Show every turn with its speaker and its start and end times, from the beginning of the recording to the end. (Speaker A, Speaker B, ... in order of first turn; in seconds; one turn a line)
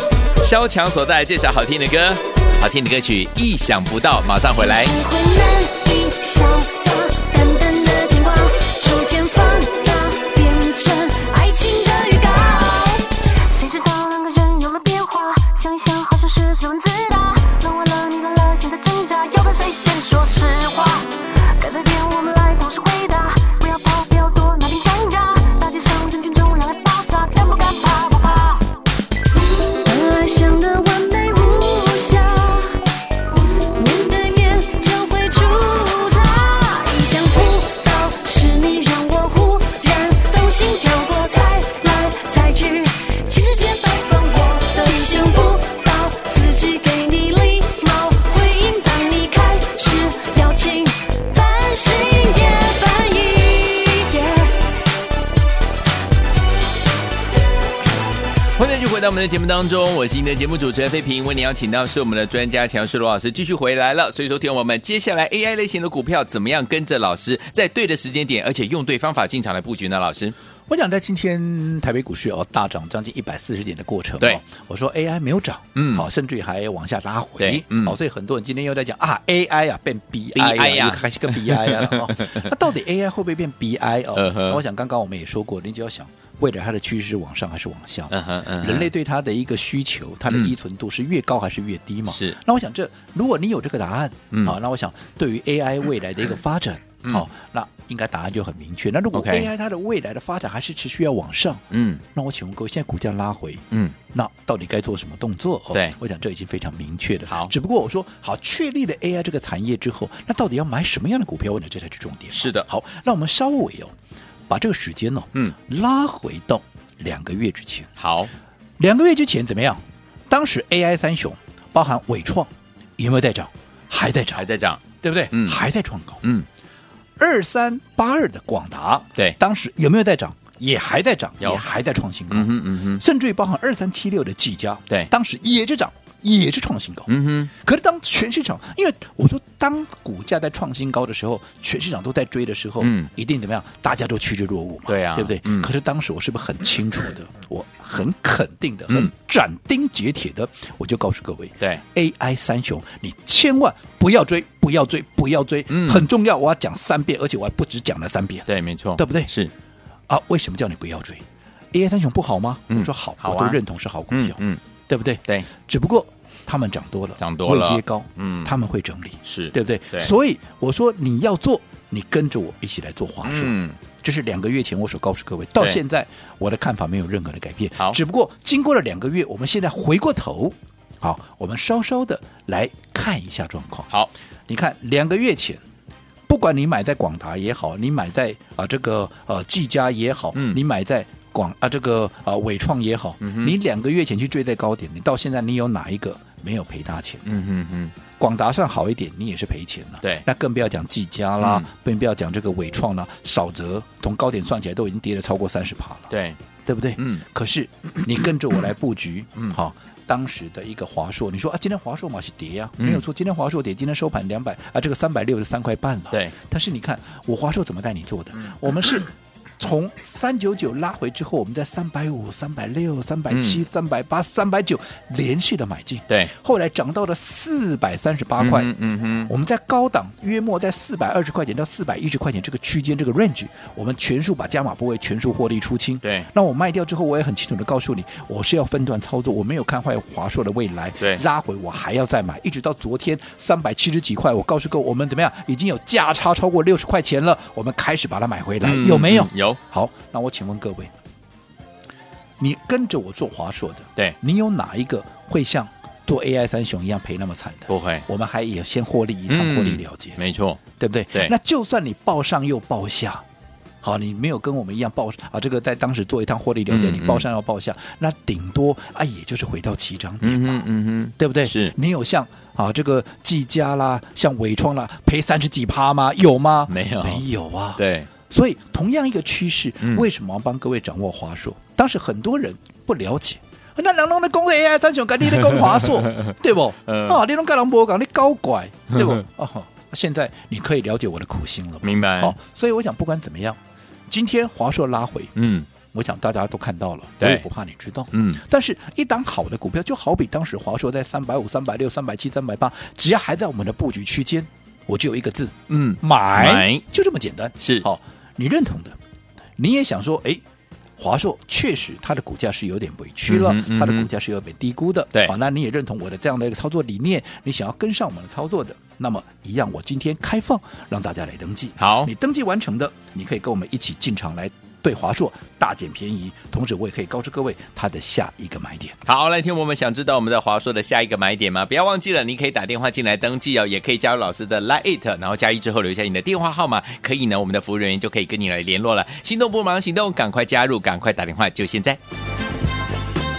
Speaker A: 0.4-4.9
Speaker B: 4.5-28.7
Speaker B: 29.7-32.8
Speaker B: 33.7-54.5
Speaker A: 58.6-70.3
Speaker C: 70.7-113.9
Speaker A: 75.8-76.1
Speaker A: 77.4-78.0
Speaker A: 80.3-82.5
Speaker A: 84.1-84.6
Speaker A: 88.1-88.9
Speaker A: 90.3-90.5
Speaker A: 92.1-92.4
Speaker A: 99.1-99.5
Speaker A: 101.7-102.0
Speaker A: 107.3-107.5
Speaker A: 112.3-112.7
Speaker C: 114.5-117.9
Speaker A: 118.0-118.3
Speaker C: 118.8-124.5
Speaker A: 124.3-125.6
Speaker C: 125.0-126.2
Speaker C: 127.2-159.3
Speaker A: 132.3-133.0
Speaker A: 137.1-137.5
Speaker A: 142.8-143.1
Speaker A: 144.9-145.7
Speaker A: 155.7-156.1
Speaker A: 158.5-159.5
Speaker C: 160.1-183.9
Speaker A: 162.7-164.6
Speaker A: 167.2-168.5
Speaker A: 169.2-170.1
Speaker A: 173.2-173.8
Speaker C: 184.5-185.6
Speaker C: 186.3-197.2
Speaker A: 190.3-190.6
Speaker A: 193.2-193.5
Speaker A: 197.2-197.9
Speaker C: 198.2-206.1
Speaker A: 201.4-201.7
Speaker A: 206.1-206.4
Speaker C: 206.6-228.7
Speaker A: 207.0-207.2
Speaker A: 212.8-213.0
Speaker A: 223.3-223.6
Speaker A: 228.4-229.3
Speaker C: 229.3-250.9
Speaker A: 236.0-236.3
Speaker A: 248.6-249.6
Speaker C: 252.4-260.2
Speaker A: 257.7-258.1
Speaker A: 259.3-260.6
Speaker C: 260.8-263.2
Speaker C: 263.8-270.6
Speaker A: 266.7-267.2
Speaker A: 270.2-271.7
Speaker C: 271.2-293.6
Speaker A: 276.7-277.2
Speaker A: 277.8-278.1
Speaker A: 279.8-280.1
Speaker A: 286.9-287.2
Speaker A: 291.8-292.3
Speaker C: 294.1-295.3
Speaker A: 295.4-295.7
Speaker C: 295.9-309.0
Speaker A: 297.2-297.4
Speaker A: 298.1-298.4
Speaker A: 305.7-306.8
Speaker A: 307.6-307.9
Speaker C: 309.6-310.4
Speaker C: 311.0-328.9
Speaker A: 313.3-314.1
Speaker A: 321.8-322.1
Speaker A: 329.0-342.0